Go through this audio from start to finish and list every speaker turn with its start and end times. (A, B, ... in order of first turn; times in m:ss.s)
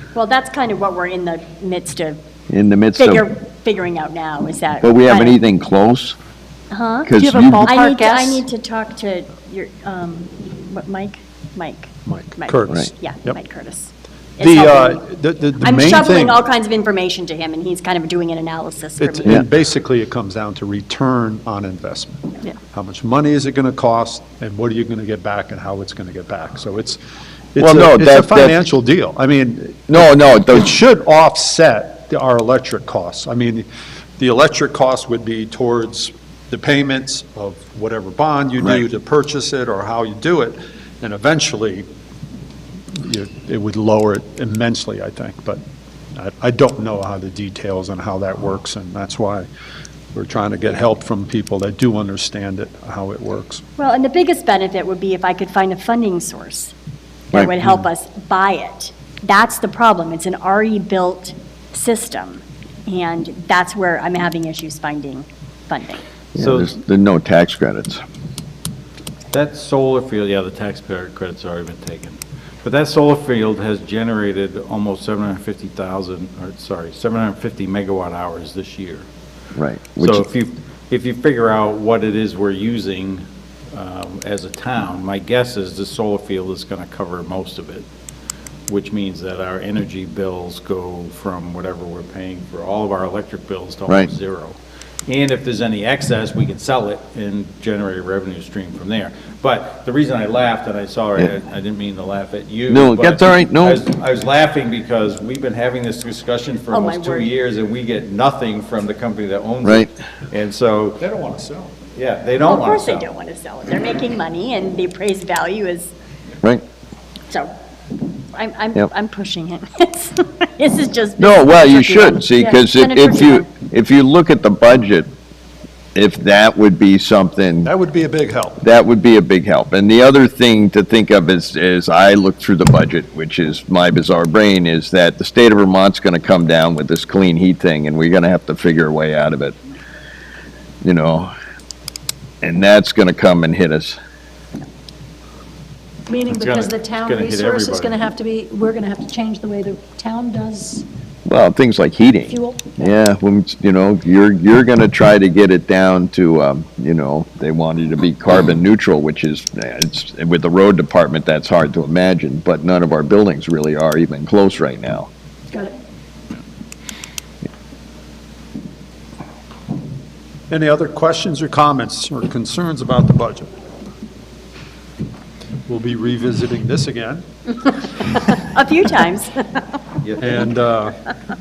0:00.1-0:02.2 A
0:02.5-0:03.3 B
0:03.0-0:05.4 A
0:04.8-0:06.2 B
0:06.7-0:07.1 A
0:07.0-0:07.7 B
0:07.2-0:08.4 C
0:07.6-0:15.0 A
0:12.1-0:13.4 D
0:14.4-0:16.4 D
0:15.6-0:19.4 A
0:19.0-0:27.0 D
0:27.5-0:33.7 D
0:27.6-0:28.6 B
0:29.9-0:30.7 B
0:34.2-0:41.9 D
0:42.9-0:45.6 D
0:46.2-0:49.5 D
0:50.1-0:53.6 D
0:53.8-0:56.7 A
0:57.3-1:06.0 A
1:06.4-1:08.0 B
1:06.4-1:06.7 E
1:09.3-1:19.1 E
1:19.6-1:20.2 B
1:20.0-1:27.9 E
1:28.7-1:34.6 E
1:35.1-1:51.0 E
1:42.7-1:43.8 B
1:46.7-1:47.3 A
1:51.0-1:51.7 D
1:52.0-1:53.1 E
1:52.4-1:55.9 A
1:58.3-2:03.5 A
2:01.2-2:05.1 B
2:06.0-2:07.7 B
2:07.6-2:08.6 D
2:08.6-2:19.6 B
2:20.8-2:21.3 B
2:22.4-2:24.0 B
2:26.1-2:30.8 C
2:26.3-2:27.9 E
2:31.2-2:45.1 B
2:32.3-2:32.9 C
2:50.5-2:53.5 D
2:55.7-2:57.2 D
2:57.7-2:59.7 A
3:00.0-3:00.5 E
3:00.2-3:01.0 D